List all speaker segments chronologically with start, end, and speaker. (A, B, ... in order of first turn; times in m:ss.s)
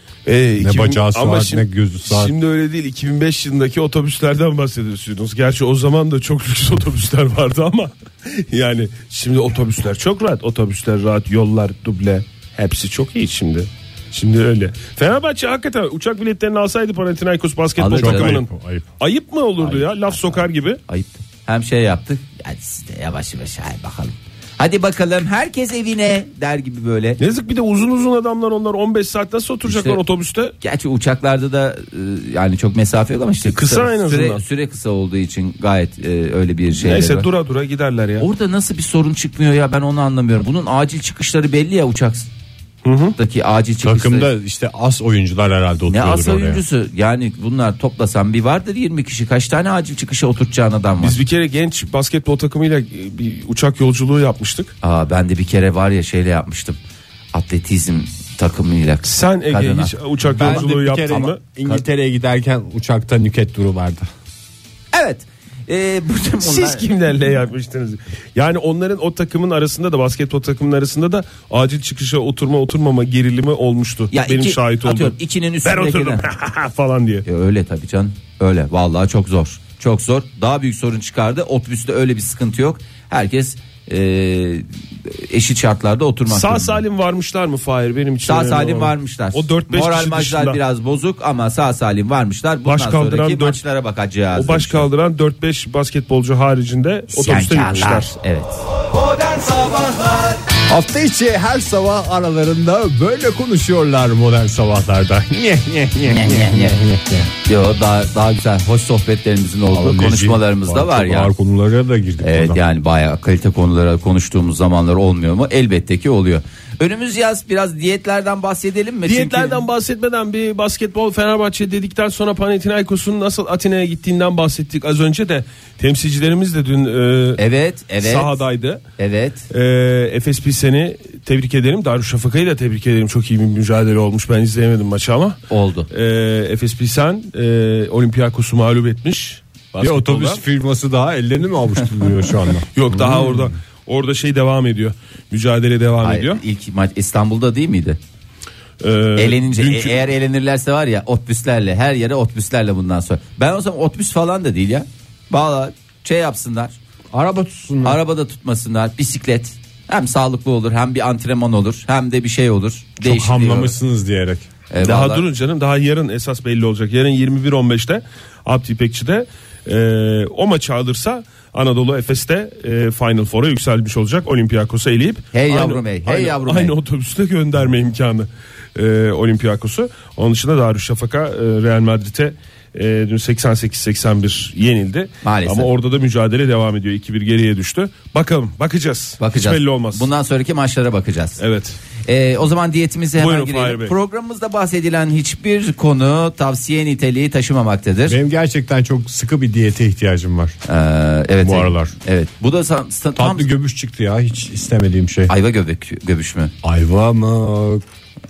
0:00.2-0:18.5 A
0:00.6-0:02.3 B
0:17.8-0:18.4 C
0:18.0-0:18.8 B
0:19.0-0:20.8 A
0:19.6-0:27.2 C
0:27.2-0:30.5 A
0:29.6-0:30.0 C
0:30.6-0:37.3 C
0:33.4-0:34.4 A
0:36.8-0:38.3 A
0:38.2-0:42.3 C
0:42.8-0:43.2 A
0:43.2-0:44.3 C
0:43.8-0:46.6 B
0:45.9-0:51.2 C
0:51.0-0:54.7 A
0:54.8-0:56.8 C
0:57.3-1:01.8 C
0:59.0-1:01.4 A
1:00.3-1:04.1 B
1:04.9-1:06.9 C
1:06.4-1:17.2 A
1:14.1-1:16.2 C
1:17.2-1:26.8 C
1:26.3-1:30.6 A
1:28.2-1:34.9 C
1:32.6-1:33.6 A
1:34.3-1:38.1 A
1:37.1-1:38.6 C
1:39.4-1:40.2 C
1:40.7-1:47.3 B
1:46.0-1:46.8 C
1:47.4-1:51.3 C
1:49.7-1:52.6 B
1:52.2-1:59.6 C
1:59.0-2:07.4 A
2:07.4-2:08.3 C
2:08.0-2:08.8 A
2:09.0-2:09.5 C
2:09.5-2:20.4 A
2:15.5-2:15.9 C
2:19.8-2:23.5 B
2:22.7-2:26.4 A
2:26.0-2:28.0 C
2:28.8-2:30.0 A
2:29.2-2:36.8 C
2:37.1-2:38.0 B
2:37.8-2:43.7 C
2:43.0-2:44.5 B
2:44.7-2:45.2 C
2:44.8-3:10.1 A
2:55.3-2:56.7 C
3:05.2-3:05.7 C
3:09.2-3:11.4 C
3:11.4-3:11.8 A
3:12.0-3:18.2 C
3:13.2-3:13.9 A
3:18.1-3:20.6 B
3:20.6-3:23.5 C
3:21.4-3:21.9 B
3:23.2-3:25.3 B
3:25.3-3:26.5 C
3:26.6-3:27.8 B